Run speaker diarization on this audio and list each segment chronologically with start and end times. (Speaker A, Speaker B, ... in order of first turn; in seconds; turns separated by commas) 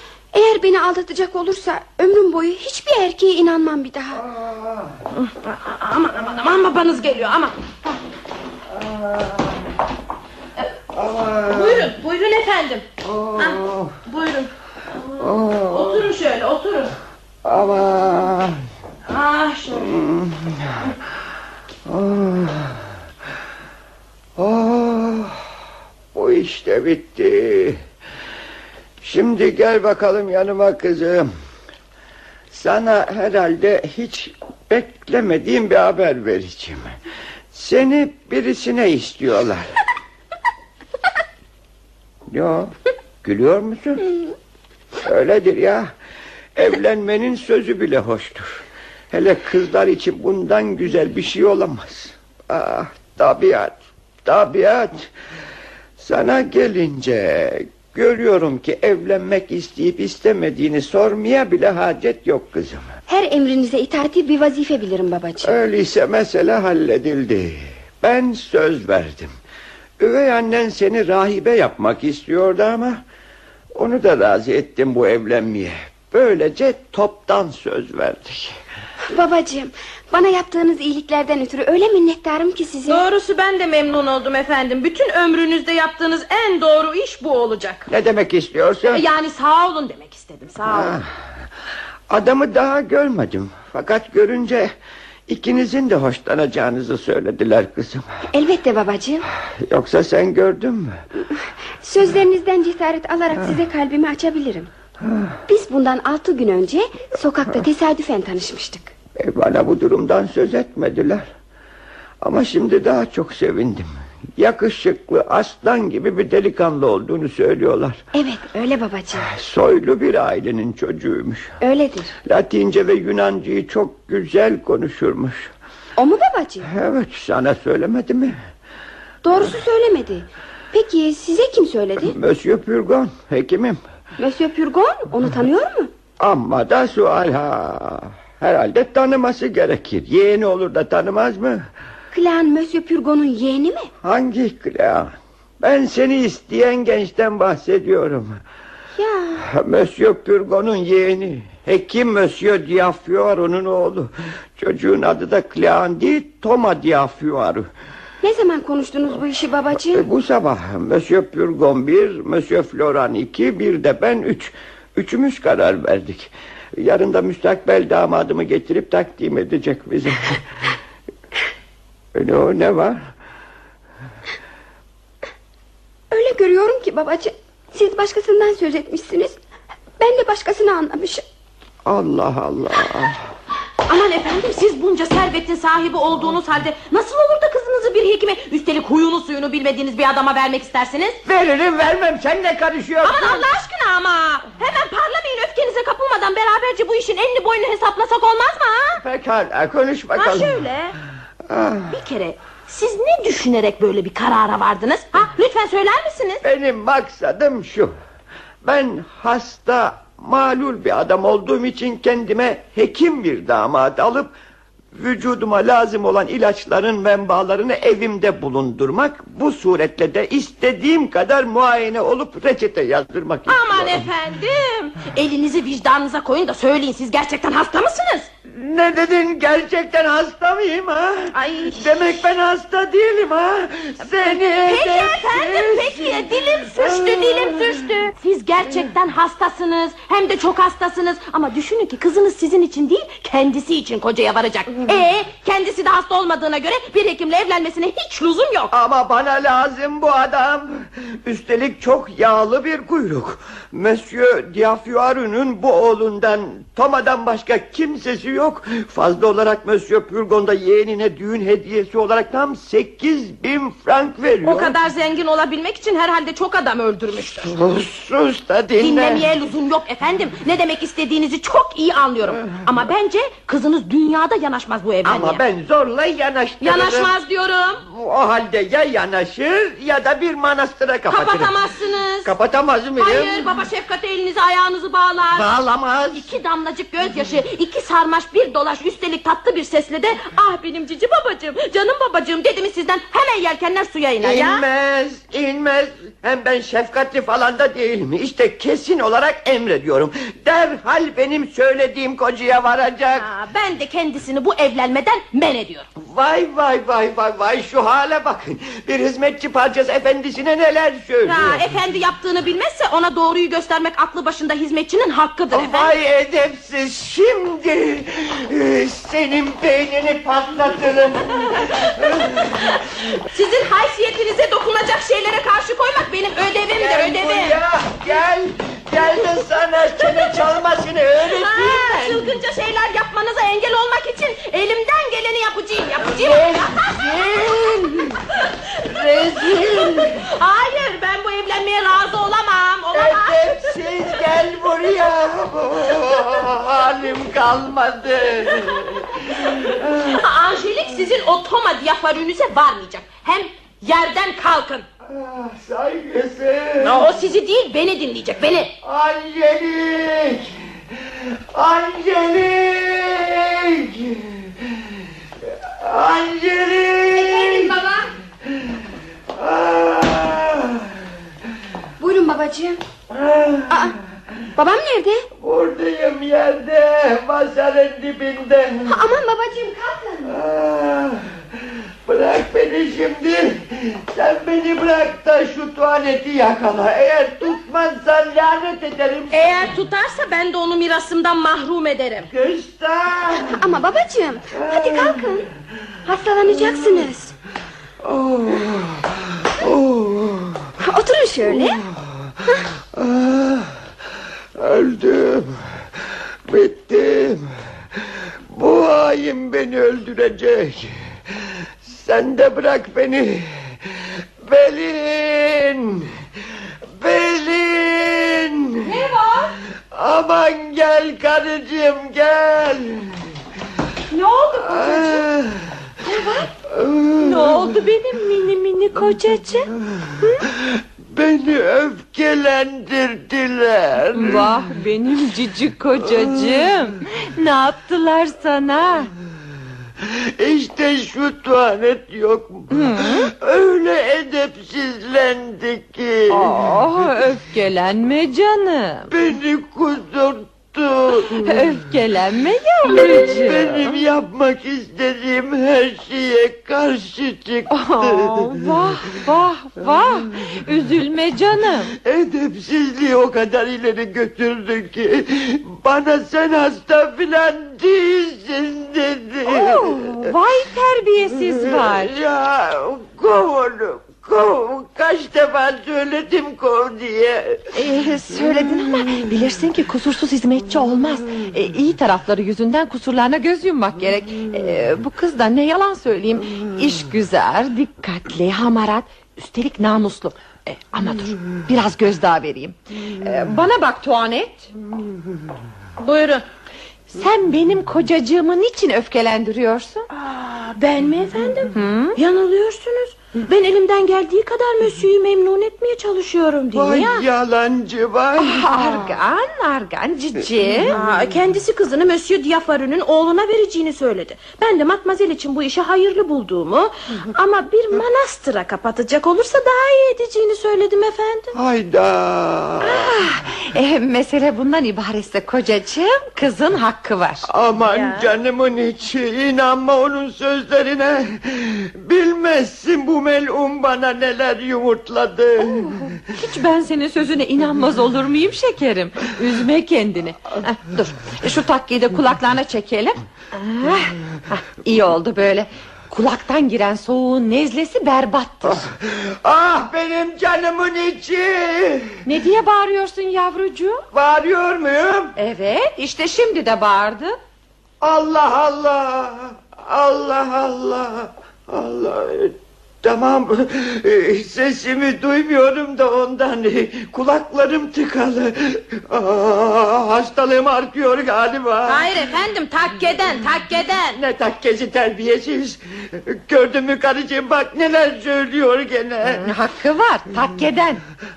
Speaker A: 0.3-4.2, Speaker B: 4.1-5.0, Speaker C: 5.1-7.6, Speaker B: 8.7-9.6, Speaker B: 10.9-11.9, Speaker C: 11.5-14.5, Speaker B: 13.0-14.0, Speaker C: 15.1-16.9, Speaker B: 15.2-16.1, Speaker B: 17.4-18.6, Speaker C: 19.1-20.0, Speaker B: 19.7-20.8, Speaker B: 21.9-22.8, Speaker B: 24.4-25.4, Speaker B: 26.1-27.8, Speaker B: 29.0-31.3, Speaker B: 32.5-36.9, Speaker B: 37.5-39.6, Speaker B: 42.3-44.1, Speaker B: 45.0-45.9, Speaker B: 46.5-55.1, Speaker B: 56.0-62.9, Speaker A: 63.1-65.5, Speaker B: 65.4-69.3, Speaker B: 70.0-73.0, Speaker B: 73.7-78.5, Speaker A: 79.1-83.0, Speaker C: 82.9-87.9, Speaker B: 87.9-89.0, Speaker C: 88.8-91.0, Speaker B: 90.7-91.1, Speaker B: 92.1-94.7, Speaker B: 95.3-98.1, Speaker A: 98.3-99.3, Speaker B: 99.6-101.0, Speaker A: 101.3-104.7, Speaker B: 105.0-105.3, Speaker A: 105.5-108.9, Speaker B: 109.2-111.3, Speaker B: 112.2-118.0, Speaker A: 118.2-119.3, Speaker B: 119.1-121.6, Speaker A: 121.6-122.1, Speaker B: 122.2-125.5, Speaker A: 126.0-126.7, Speaker B: 126.7-128.4, Speaker A: 129.2-132.1, Speaker B: 132.0-133.8, Speaker A: 134.2-135.9, Speaker B: 136.2-141.7, Speaker A: 142.1-143.9, Speaker B: 144.0-148.4, Speaker A: 149.0-149.4, Speaker B: 149.4-157.7, Speaker A: 158.2-160.0, Speaker B: 159.9-170.4, Speaker B: 172.1-173.0, Speaker A: 176.1-179.4, Speaker A: 180.0-181.2, Speaker B: 181.8-183.2, Speaker C: 183.9-191.2, Speaker B: 191.2-193.5, Speaker C: 193.0-199.0, Speaker B: 199.0-200.6, Speaker C: 200.2-200.9, Speaker B: 201.5-201.9, Speaker C: 201.9-206.4, Speaker B: 206.4-207.9, Speaker B: 208.6-214.3, Speaker B: 214.9-224.1, Speaker C: 223.5-228.3, Speaker B: 228.5-238.0, Speaker C: 231.3-231.9, Speaker C: 234.3-248.7, Speaker B: 248.7-264.8, Speaker C: 264.4-267.6, Speaker B: 267.4-269.3, Speaker C: 268.8-275.4, Speaker B: 275.1-277.1, Speaker C: 276.6-277.8, Speaker B: 277.9-281.5, Speaker C: 281.1-282.3, Speaker B: 282.2-283.5, Speaker C: 283.0-285.5, Speaker B: 285.3-286.3, Speaker C: 286.1-294.6, Speaker B: 294.2-303.3, Speaker C: 303.1-305.9, Speaker B: 306.0-311.6, Speaker C: 311.2-315.9, Speaker B: 315.5-322.8, Speaker C: 321.6-322.0, Speaker C: 322.6-327.6, Speaker B: 326.8-332.4, Speaker C: 330.0-330.3, Speaker C: 331.2-337.2, Speaker B: 336.0-338.2, Speaker B: 338.8-340.2, Speaker C: 339.1-344.2, Speaker B: 342.9-350.2, Speaker C: 349.2-354.9, Speaker B: 355.1-357.1, Speaker C: 356.8-358.7, Speaker B: 358.8-367.8, Speaker A: 367.5-367.9, Speaker B: 368.5-368.8, Speaker B: 369.3-371.0, Speaker A: 372.0-372.8, Speaker B: 373.1-374.0, Speaker A: 373.7-373.9, Speaker A: 374.6-375.3, Speaker B: 375.4-379.1, Speaker A: 378.9-380.4, Speaker B: 380.2-389.7, Speaker C: 389.3-392.3, Speaker B: 392.3-393.6, Speaker A: 393.4-395.5, Speaker B: 394.5-395.5, Speaker A: 396.1-397.3, Speaker B: 396.4-397.1, Speaker B: 398.0-400.7, Speaker A: 400.8-401.8, Speaker B: 401.4-402.1, Speaker B: 402.9-403.7, Speaker B: 404.6-405.6, Speaker B: 406.5-410.9, Speaker B: 411.8-416.1, Speaker B: 417.0-419.0, Speaker D: 418.8-419.5, Speaker B: 419.9-423.1, Speaker C: 424.1-425.2, Speaker B: 424.6-425.5, Speaker D: 426.0-426.5, Speaker B: 426.7-427.8, Speaker D: 427.2-429.7, Speaker B: 430.5-434.6, Speaker D: 434.1-439.1, Speaker B: 436.1-436.6, Speaker B: 440.0-447.1, Speaker D: 442.7-443.3, Speaker D: 446.3-449.1, Speaker B: 449.1-451.7, Speaker D: 451.2-454.1, Speaker B: 452.9-458.8, Speaker D: 457.7-461.9, Speaker B: 462.0-470.3, Speaker D: 469.5-472.2, Speaker B: 471.5-477.6, Speaker D: 477.7-494.7, Speaker C: 496.0-496.4, Speaker D: 497.1-500.1, Speaker C: 500.1-507.3, Speaker D: 501.7-502.2, Speaker B: 506.7-509.1, Speaker D: 508.4-511.0, Speaker B: 510.8-511.2, Speaker C: 510.9-521.6, Speaker B: 521.5-523.2, Speaker D: 522.8-527.5, Speaker B: 527.5-536.0, Speaker C: 527.9-528.3, Speaker D: 535.6-548.9, Speaker B: 548.6-552.2, Speaker D: 552.2-554.0, Speaker B: 554.1-555.4, Speaker D: 555.4-557.4, Speaker B: 558.0-572.1, Speaker C: 571.9-574.2, Speaker B: 574.1-579.5, Speaker D: 579.2-581.0